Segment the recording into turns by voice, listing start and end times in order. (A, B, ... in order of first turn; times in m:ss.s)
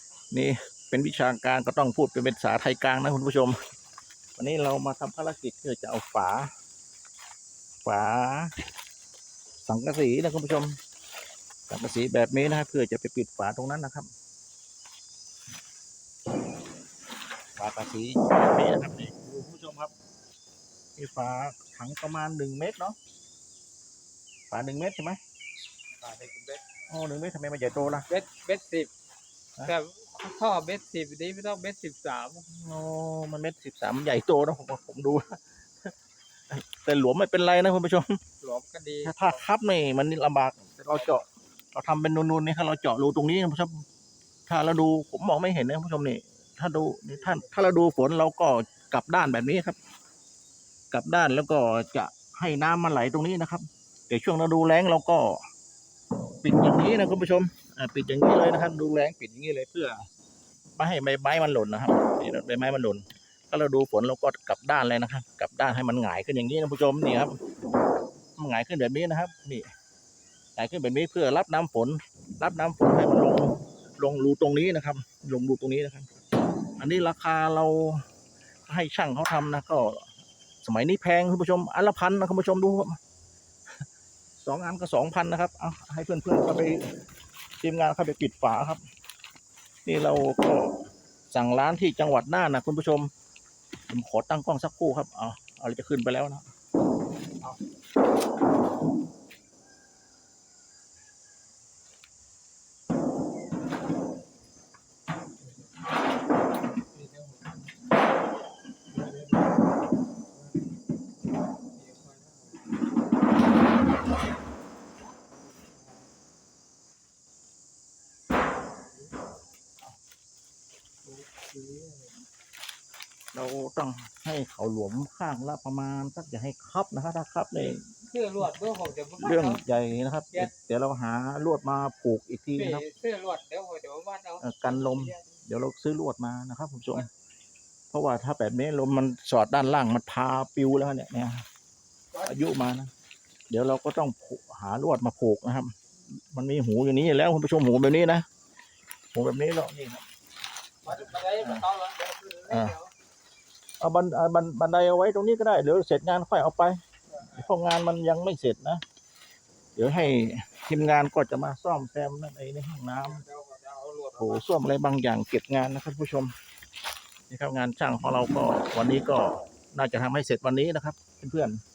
0:00.3-0:03.6 A
0:04.4-0:06.5 A
0:07.8-0:08.5 A
0:09.6-0:10.8 A
0:11.7-0:14.1 A
0:17.6-0:19.9 A
0:21.0-0:23.0 A
0:24.5-0:25.2 A
0:26.0-0:26.6 B
0:26.9-0:28.1 A
0:28.1-0:28.9 B
0:29.6-0:32.5 B
0:32.5-0:35.9 A
0:36.5-0:38.1 A
0:38.4-0:39.4 B
0:39.0-0:43.8 A
0:44.5-0:49.8 A
0:47.1-0:47.7 B
0:50.9-0:55.4 A
0:56.4-1:00.0 A
1:00.8-1:07.4 A
1:08.4-1:09.7 A
1:10.6-1:16.1 A
1:16.8-1:18.0 A
1:18.7-1:20.1 A
1:20.6-1:23.0 A
1:24.4-1:26.9 A
1:27.6-1:28.8 A
1:29.9-1:33.1 A
1:33.9-1:36.4 A
1:46.9-1:47.6 B
1:48.9-1:49.4 B
1:51.7-1:52.8 B
1:55.4-1:56.1 B
2:01.0-2:02.1 B
2:03.3-2:07.8 A
2:08.1-2:09.6 B
2:09.2-2:12.8 A
2:12.6-2:15.2 B
2:14.4-2:17.1 A
2:17.9-2:21.4 A
2:22.2-2:22.9 A
2:23.5-2:28.2 A
2:29.1-2:30.1 A
2:30.8-2:32.9 B
2:30.8-2:31.6 A
2:32.5-2:32.8 A
2:33.8-2:38.8 A
2:37.1-2:37.5 B
2:39.8-2:43.2 A
2:43.0-2:44.5 B
2:44.2-2:46.3 A
2:47.3-2:51.6 A